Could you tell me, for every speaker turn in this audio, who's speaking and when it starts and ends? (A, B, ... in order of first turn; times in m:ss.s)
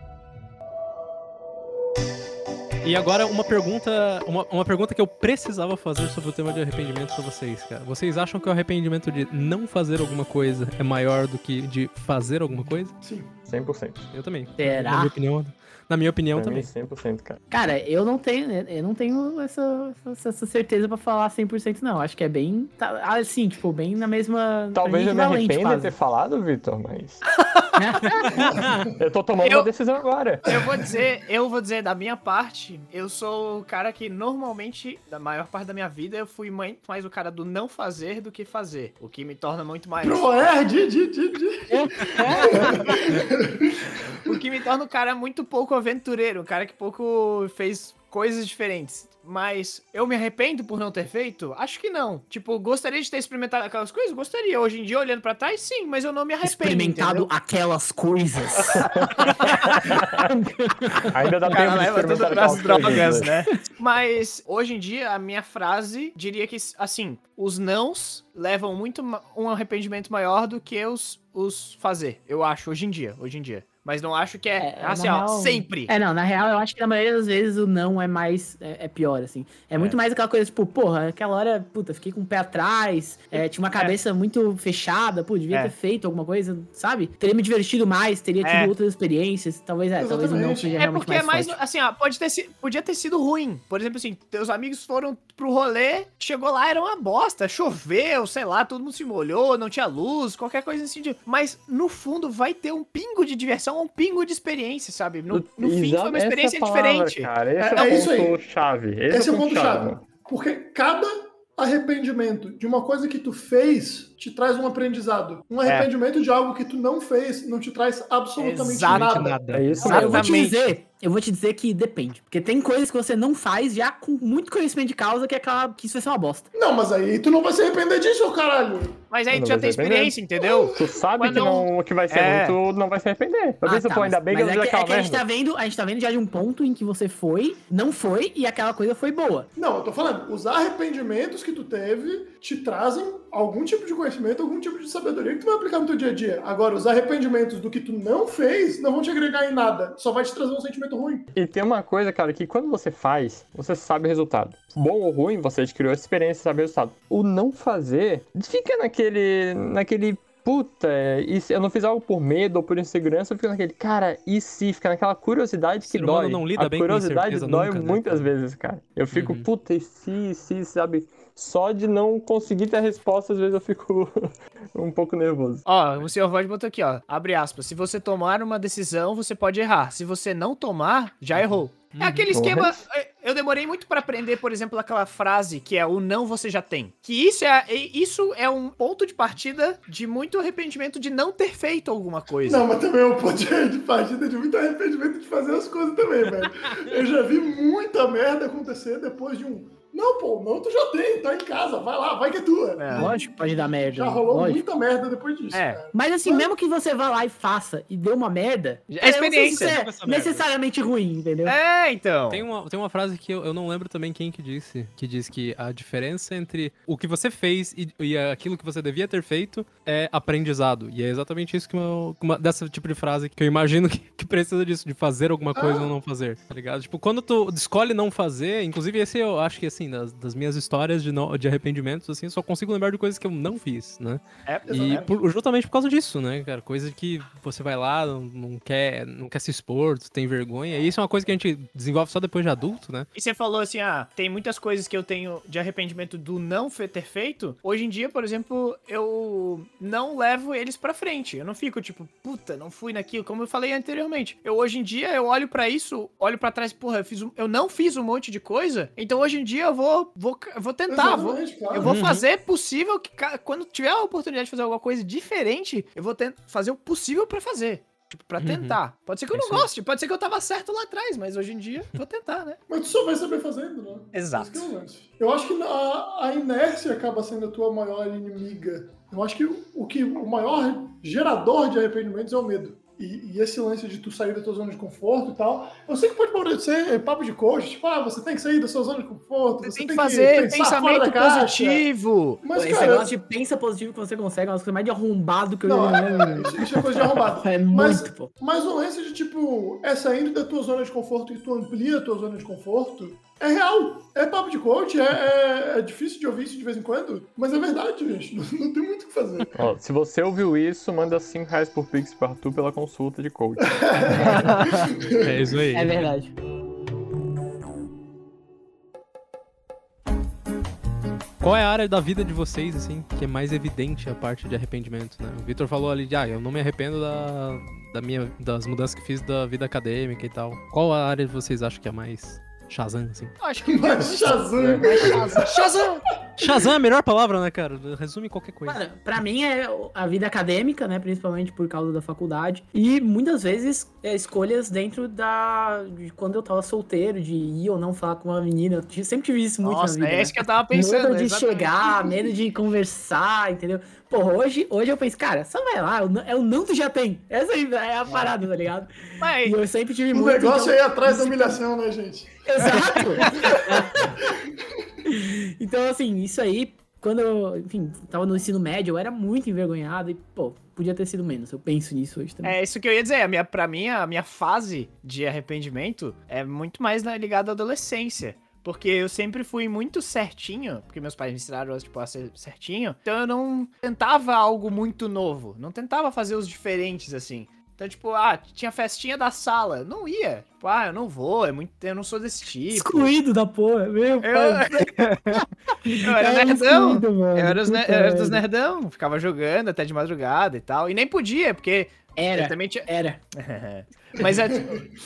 0:02.8-0:13.0 A
0:13.0-0:13.3 B
0:13.5-0:14.0 C
0:14.1-0:16.7 A
0:14.6-0:15.1 D
0:16.3-0:17.4 C
0:17.5-0:25.9 D
0:24.7-0:27.2 C
0:27.3-0:28.4 E
0:27.8-0:28.3 D
0:28.3-0:28.9 B
0:29.0-0:30.5 C
0:29.4-0:29.7 E
0:30.4-0:40.5 E
0:40.0-0:44.4 B
0:41.7-0:42.8 D
0:42.2-0:43.0 E
0:42.2-0:42.5 A
0:44.1-0:57.3 E
0:56.4-0:58.9 D
0:58.7-1:00.3 C
0:59.0-0:59.6 E
0:59.9-1:01.7 D
1:01.1-1:03.3 C
1:01.5-1:15.9 E
1:02.3-1:03.0 B
1:14.6-1:31.6 D
1:23.4-1:23.9 E
1:28.4-1:28.7 E
1:30.0-1:30.8 B
1:30.8-1:48.0 E
1:45.3-1:50.0 C
1:47.6-1:48.4 B
1:49.1-1:59.4 B
1:58.4-2:00.6 E
1:58.9-1:59.9 A
1:59.5-2:00.3 C
1:59.8-2:06.5 D
2:06.5-2:09.0 B
2:09.1-2:12.6 E
2:09.3-2:10.2 C
2:10.4-2:10.8 B
2:10.7-2:15.2 C
2:13.6-2:19.5 D
2:19.6-2:31.3 B
2:31.3-2:55.6 C
2:45.8-2:48.3 A
2:49.1-2:49.5 A
2:55.6-3:12.6 E
3:01.4-3:02.3 A
3:02.3-3:02.8 C
3:12.4-3:26.5 B
3:22.8-3:23.1 E
3:23.0-3:24.6 D
3:25.5-3:25.8 E
3:25.9-3:31.6 D
3:28.9-3:29.8 E
3:29.5-3:30.5 A
3:31.4-3:32.4 E
3:32.3-4:03.1 A
3:45.5-3:45.9 B
3:54.4-3:55.1 E
3:54.7-3:55.2 B
4:03.1-4:32.6 E
4:20.9-4:22.0 B
4:21.8-4:22.2 A
4:28.4-4:28.8 A
4:29.3-4:29.7 A
4:32.7-4:51.8 B
4:34.1-4:34.7 E
4:49.6-4:52.4 E
4:52.4-4:53.1 B
4:52.5-4:58.3 D
4:55.6-5:09.5 B
5:09.5-5:14.6 C
5:13.6-5:15.4 B
5:14.2-5:14.9 E
5:15.2-5:16.0 A
5:15.7-5:16.3 D
5:21.4-5:33.3 A
5:33.4-5:36.0 E
5:33.6-5:36.6 B
5:34.3-5:35.1 C
5:36.4-5:38.8 A
5:38.6-6:01.6 D
5:49.6-5:52.0 E
5:59.2-5:59.6 E
6:00.1-6:04.6 B
6:02.4-6:04.2 D
6:05.0-6:12.6 D
6:12.4-6:33.1 E
6:32.7-6:38.4 D
6:34.2-6:35.4 E
6:36.0-6:44.9 E
6:42.2-6:43.2 D
6:44.6-6:44.8 B